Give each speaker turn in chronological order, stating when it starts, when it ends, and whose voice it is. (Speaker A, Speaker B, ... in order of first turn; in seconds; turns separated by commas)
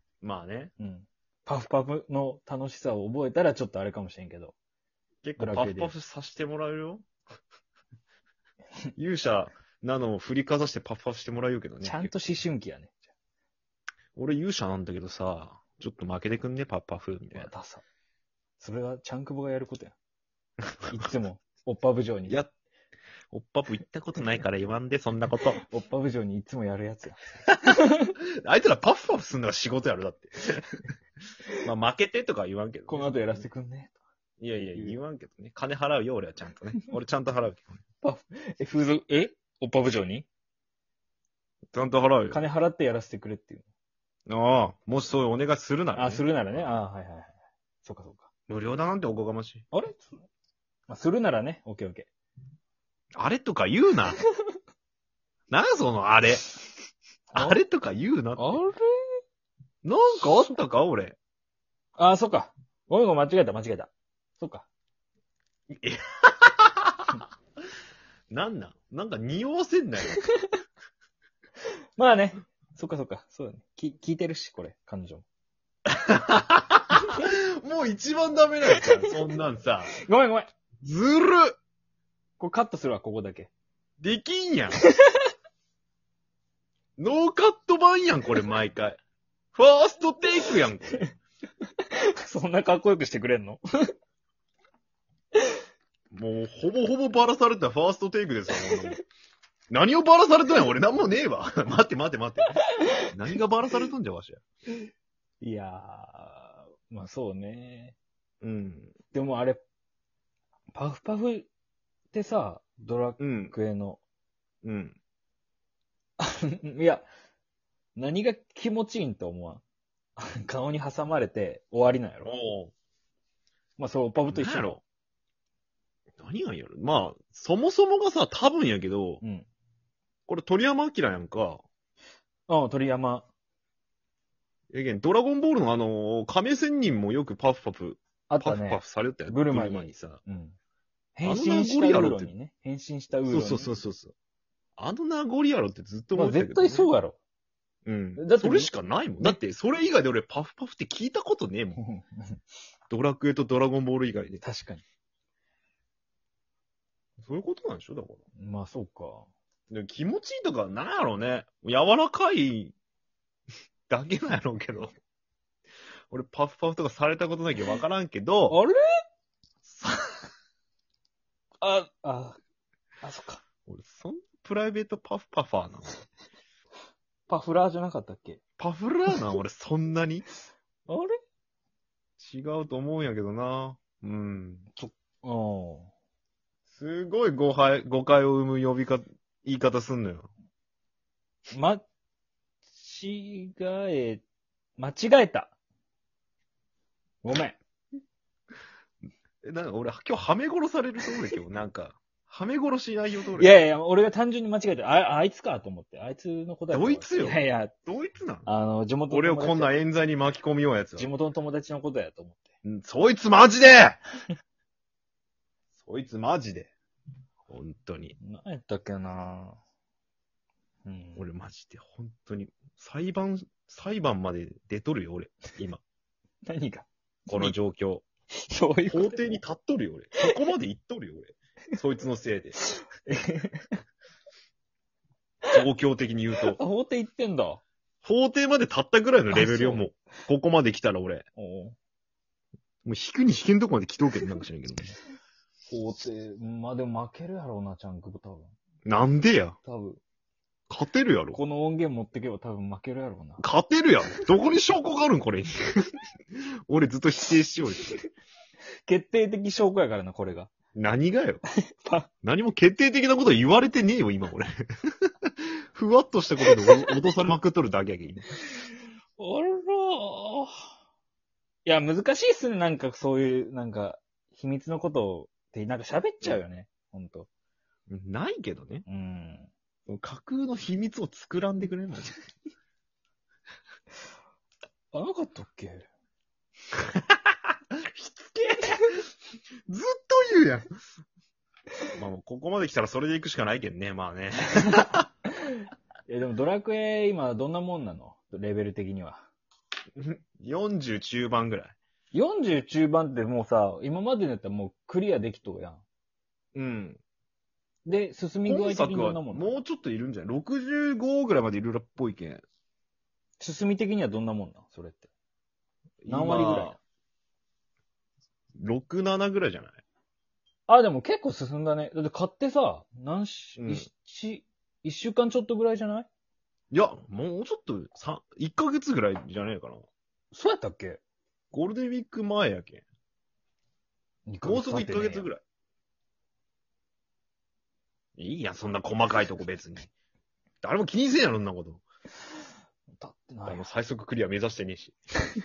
Speaker A: 0.2-0.7, Speaker B: 0.8-4.5, Speaker A: 5.2-7.1, Speaker B: 5.4-5.9, Speaker A: 8.9-12.1, Speaker B: 11.8-13.0, Speaker A: 14.1-17.5, Speaker B: 17.3-17.8, Speaker B: 18.6-19.9, Speaker B: 20.9-22.4, Speaker A: 23.3-25.6, Speaker B: 25.6-28.1, Speaker A: 28.4-30.7, Speaker A: 31.6-33.4, Speaker B: 32.9-34.0, Speaker A: 34.4-37.8, Speaker B: 38.0-40.2, Speaker A: 41.7-42.4, Speaker B: 42.3-43.7, Speaker A: 44.3-46.7, Speaker B: 46.0-47.3, Speaker B: 47.8-48.3, Speaker A: 48.5-49.6, Speaker B: 49.7-50.1, Speaker B: 50.9-52.1, Speaker A: 53.1-54.2, Speaker A: 55.5-56.5, Speaker A: 57.3-58.6, Speaker B: 57.3-57.6, Speaker B: 58.4-58.9, Speaker A: 59.8-61.2, Speaker B: 62.0-64.7, Speaker A: 65.7-67.2, Speaker A: 68.3-70.2, Speaker B: 72.0-75.2, Speaker A: 75.9-80.0, Speaker B: 78.7-79.1, Speaker B: 79.9-80.5, Speaker A: 80.8-81.5, Speaker B: 82.4-83.5, Speaker A: 84.0-84.8, Speaker B: 84.9-85.2, Speaker A: 87.0-89.0, Speaker A: 89.5-91.1, Speaker B: 92.2-93.6, Speaker A: 96.1-99.0, Speaker B: 98.5-98.9, Speaker A: 99.7-102.6, Speaker A: 103.1-104.4, Speaker B: 105.4-108.0, Speaker A: 108.4-108.9, Speaker B: 109.1-109.6, Speaker B: 110.7-111.5, Speaker B: 112.1-114.0, Speaker A: 113.2-113.5, Speaker A: 114.6-115.0, Speaker B: 116.2-117.1, Speaker B: 118.0-119.6, Speaker B: 120.2-122.3, Speaker A: 122.2-122.7, Speaker B: 123.8-124.8, Speaker A: 124.3-124.8, Speaker A: 126.2-129.2, Speaker B: 129.2-129.5, Speaker A: 130.3-131.6, Speaker B: 132.5-133.3, Speaker A: 134.7-140.2, Speaker B: 138.3-140.6, Speaker B: 141.2-143.7, Speaker A: 141.2-142.3, Speaker A: 143.3-144.1, Speaker A: 144.8-146.9, Speaker B: 146.1-147.2, Speaker A: 147.9-151.8, Speaker B: 148.2-148.7, Speaker B: 151.8-152.4, Speaker A: 152.9-154.4, Speaker B: 154.4-154.8, Speaker A: 157.2-158.2, Speaker B: 158.4-159.3, Speaker A: 159.7-162.7, Speaker A: 163.9-164.9, Speaker A: 166.1-168.6, Speaker B: 168.5-168.8, Speaker A: 169.6-170.2, Speaker B: 171.6-172.4, Speaker B: 173.0-173.4, Speaker A: 173.7-175.9, Speaker B: 177.3-178.4, Speaker A: 178.6-180.3, Speaker B: 180.9-181.2, Speaker A: 182.2-184.7, Speaker B: 184.8-185.9, Speaker A: 186.7-190.3, Speaker B: 191.5-191.8, Speaker B: 192.8-194.2, Speaker B: 194.8-195.5, Speaker B: 197.2-197.6, Speaker A: 199.4-203.5, Speaker B: 203.4-207.7, Speaker A: 206.7-208.5, Speaker B: 208.4-209.8, Speaker A: 209.1-211.1, Speaker B: 211.0-212.5, Speaker A: 212.6-214.0, Speaker A: 215.8-216.7, Speaker A: 217.5-218.2, Speaker B: 218.2-219.6, Speaker B: 220.9-221.2, Speaker A: 221.2-225.8, Speaker B: 226.5-227.6, Speaker A: 227.3-228.0, Speaker B: 228.5-229.2, Speaker A: 228.9-232.6, Speaker B: 232.6-233.7, Speaker A: 235.5-236.6, Speaker B: 236.5-237.6, Speaker A: 238.0-241.2, Speaker B: 239.3-239.9, Speaker B: 241.4-241.8, Speaker A: 242.8-245.0, Speaker B: 245.7-248.5, Speaker A: 248.8-249.6, Speaker B: 249.6-250.0, Speaker A: 250.7-251.4, Speaker B: 251.3-253.4, Speaker A: 253.4-256.0, Speaker A: 256.7-258.0, Speaker B: 258.9-260.5, Speaker A: 260.8-261.4, Speaker B: 261.7-262.1, Speaker A: 262.2-268.3, Speaker B: 266.5-266.9, Speaker B: 269.2-270.6, Speaker B: 271.6-277.3, Speaker A: 277.9-278.9, Speaker B: 278.9-279.5, Speaker A: 279.9-282.1, Speaker B: 284.9-285.9, Speaker A: 287.8-288.8, Speaker A: 289.7-290.7, Speaker A: 291.9-295.0, Speaker B: 295.5-299.2, Speaker A: 300.0-301.8, Speaker B: 302.1-305.8, Speaker A: 306.5-307.0, Speaker B: 307.9-309.6, Speaker A: 308.4-312.4, Speaker B: 313.4-315.1, Speaker A: 316.0-316.8, Speaker B: 316.1-316.8, Speaker A: 318.6-319.8, Speaker B: 320.7-326.1, Speaker A: 323.6-323.9, Speaker A: 326.7-329.8, Speaker B: 330.3-331.0, Speaker A: 331.5-332.8, Speaker B: 334.3-335.3, Speaker A: 334.4-335.4, Speaker A: 338.2-339.9, Speaker A: 340.6-341.8, Speaker B: 342.9-343.6, Speaker A: 343.5-345.0